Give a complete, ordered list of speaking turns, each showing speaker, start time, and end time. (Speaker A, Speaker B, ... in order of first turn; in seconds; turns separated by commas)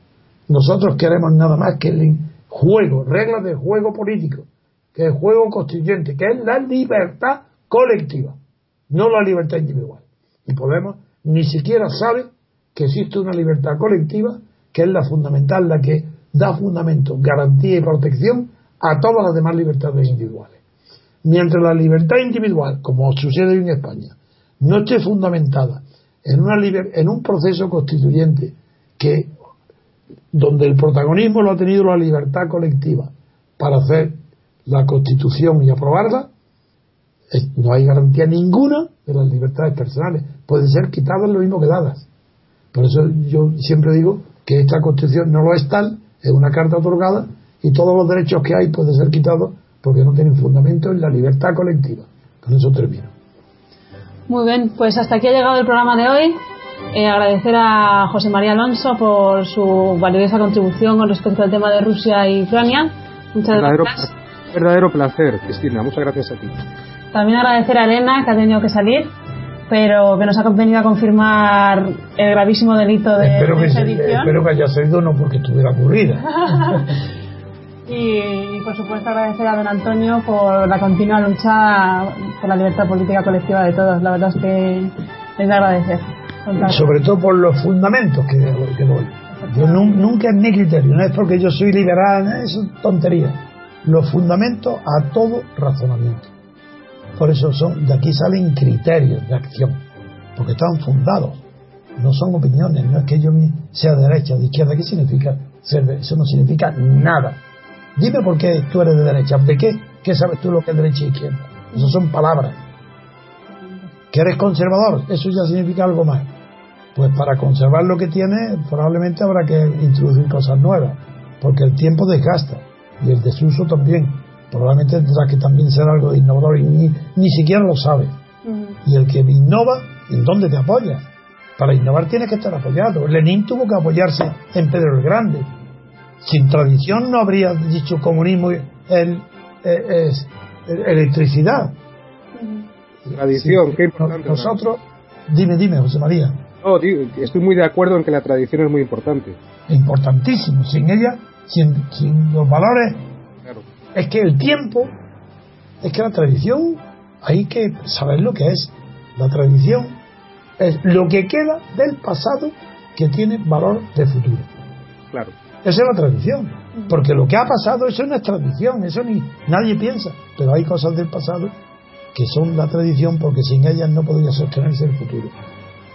Speaker A: 0.5-8.4, Speaker A: 8.9-20.6, Speaker A: 21.2-29.3, Speaker A: 30.3-36.3, Speaker A: 37.3-42.1, Speaker A: 42.7-53.1, Speaker B: 54.3-64.1, Speaker C: 63.5-66.6, Speaker B: 67.1-69.1, Speaker B: 69.7-74.3, Speaker A: 73.2-76.8, Speaker B: 76.4-76.8, Speaker B: 77.9-87.0, Speaker A: 86.6-96.3, Speaker B: 89.4-89.9, Speaker A: 97.2-99.8, Speaker A: 100.3-101.4, Speaker A: 102.0-107.4, Speaker A: 108.0-112.6, Speaker A: 114.1-116.3, Speaker A: 116.9-128.2, Speaker B: 128.4-128.8, Speaker A: 128.8-135.5, Speaker A: 136.2-141.8, Speaker B: 142.4-142.6, Speaker A: 143.0-146.4, Speaker C: 143.1-144.6, Speaker C: 146.6-149.4, Speaker A: 149.7-153.0, Speaker A: 153.9-155.0, Speaker A: 155.8-160.0, Speaker A: 160.6-164.5, Speaker A: 165.6-171.5, Speaker A: 172.1-175.3